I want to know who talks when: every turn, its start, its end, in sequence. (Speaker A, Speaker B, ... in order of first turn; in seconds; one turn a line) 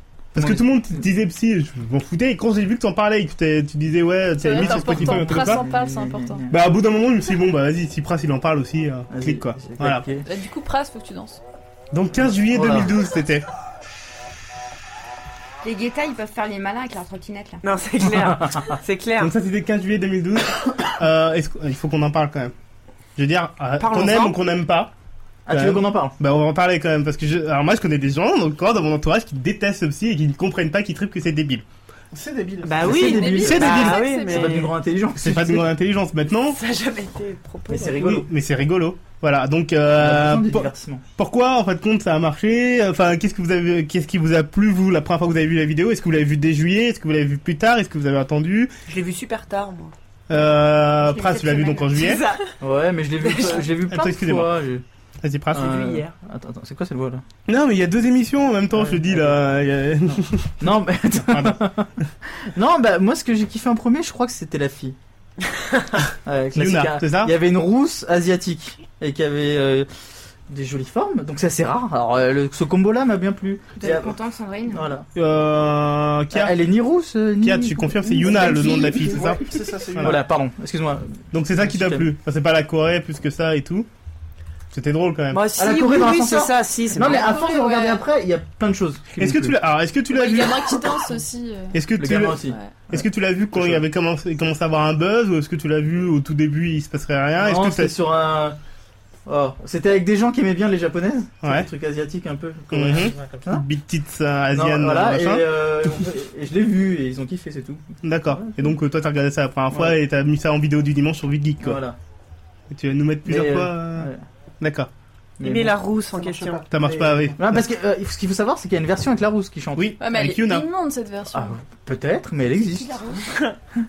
Speaker A: 0.3-5.6
Speaker B: 0.4-0.6
Speaker C: 4.4-6.5
Speaker B: 4.5-6.5
Speaker A: 6.5-10.0
Speaker B: 9.1-10.2
Speaker C: 10.2-11.4
Speaker A: 11.9-13.4
Speaker B: 12.5-12.9
Speaker D: 15.6-17.6
Speaker E: 17.6-19.3
Speaker B: 18.1-18.7
Speaker A: 19.2-22.5
Speaker A: 23.1-24.9
Speaker E: 23.8-24.3
Speaker B: 25.4-26.1
Speaker A: 25.5-31.6
Speaker F: 32.1-33.3
Speaker E: 32.6-34.7
Speaker B: 32.8-35.7
Speaker C: 33.0-34.6
Speaker A: 33.4-34.1
Speaker A: 35.1-36.6
Speaker E: 36.5-38.2
Speaker B: 37.7-38.3
Speaker A: 37.9-48.7
Speaker B: 40.0-41.0
Speaker E: 48.9-49.9
Speaker A: 50.3-52.2
Speaker D: 51.0-52.0
Speaker E: 51.9-52.5
Speaker B: 52.6-54.8
Speaker E: 53.2-53.6
Speaker A: 53.9-54.5
Speaker A: 55.2-55.7
Speaker B: 55.5-57.2
Speaker E: 55.5-56.1
Speaker A: 57.5-60.6
Speaker B: 58.7-59.4
Speaker B: 60.1-61.9
Speaker A: 61.3-61.6
Speaker B: 62.5-65.0
Speaker B: 66.2-69.9
Speaker A: 66.5-67.3
Speaker B: 70.5-74.2
Speaker D: 73.8-74.9
Speaker B: 74.7-75.0
Speaker A: 75.1-76.5
Speaker B: 76.3-79.3
Speaker A: 77.4-79.4
Speaker F: 78.2-80.2
Speaker A: 79.9-80.2
Speaker B: 80.0-82.1
Speaker A: 81.3-83.9
Speaker A: 84.7-85.5
Speaker E: 85.3-87.3
Speaker B: 85.6-89.5
Speaker C: 87.0-88.0
Speaker A: 89.2-90.8
Speaker C: 90.1-91.8
Speaker A: 91.7-97.9
Speaker B: 92.0-93.0
Speaker C: 92.5-92.7
Speaker B: 93.5-93.8
Speaker B: 97.4-98.6
Speaker B: 99.2-103.6
Speaker A: 101.4-101.7
Speaker A: 102.7-105.8
Speaker B: 104.5-107.8
Speaker A: 108.0-111.8
Speaker B: 108.3-108.7
Speaker B: 111.6-112.0
Speaker A: 112.7-114.1
Speaker B: 113.2-114.2
Speaker A: 114.6-114.9
Speaker B: 115.4-115.8
Speaker E: 115.4-116.6
Speaker F: 116.1-117.5
Speaker A: 116.7-117.6
Speaker B: 117.4-119.9
Speaker A: 119.8-120.7
Speaker C: 120.0-121.6
Speaker B: 121.3-123.1
Speaker D: 122.7-123.3
Speaker E: 123.2-123.5